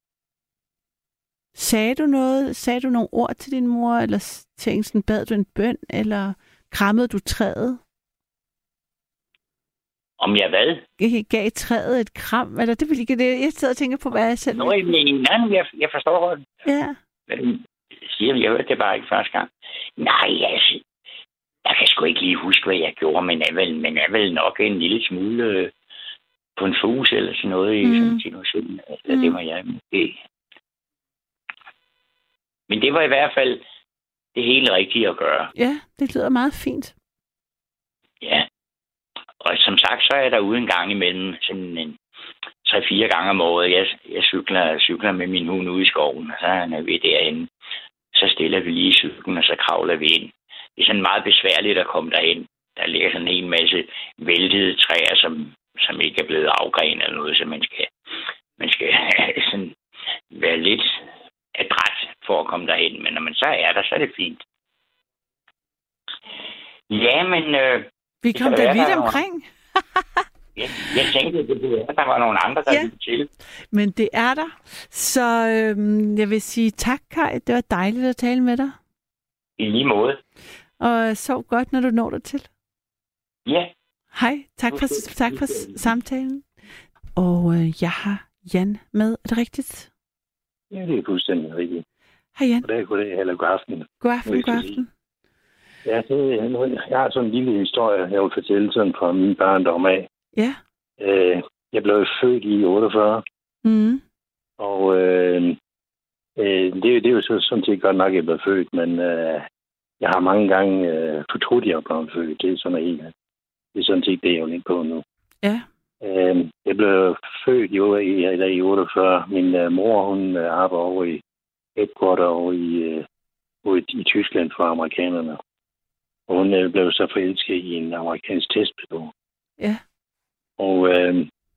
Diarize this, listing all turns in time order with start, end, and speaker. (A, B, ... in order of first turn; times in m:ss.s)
0:01.5-0:07.8 A
0:10.2-0:10.8 B
0:11.0-0:14.8 A
0:14.6-0:16.4 B
0:16.6-0:17.0 A
0:17.3-0:20.8 B
0:21.6-0:25.7 B
0:26.6-0:30.2 B
0:27.8-0:28.2 A
0:29.1-0:29.3 A
0:32.7-0:33.6 B
0:34.3-0:35.5 B
0:35.5-0:36.9 A
0:38.2-0:38.5 B
0:39.4-0:42.0 B
0:42.6-0:47.5 B
0:48.1-0:57.9 B
0:58.6-0:59.7 B
1:00.3-1:04.4 B
1:06.9-1:09.2 B
1:08.2-1:09.4 A
1:10.6-1:13.3 B
1:13.7-1:18.8 A
1:19.6-1:20.2 B
1:20.8-1:22.5 A
1:23.4-1:23.7 B
1:24.1-1:26.4 A
1:24.7-1:25.7 B
1:27.2-1:29.9 A
1:30.7-1:31.8 C
1:32.4-1:32.6 A
1:32.6-1:34.8 C
1:34.0-1:34.9 A
1:35.8-1:40.1 C
1:40.3-1:40.6 A
1:41.0-1:43.2 C
1:43.6-1:44.0 A
1:44.6-1:45.6 C
1:46.4-1:49.4 C
1:50.0-1:53.1 C
1:53.7-1:55.0 C
1:56.0-2:01.2 C
2:01.8-2:03.0 C
2:03.6-2:05.4 C
2:06.3-2:09.1 C
2:10.6-2:11.3 C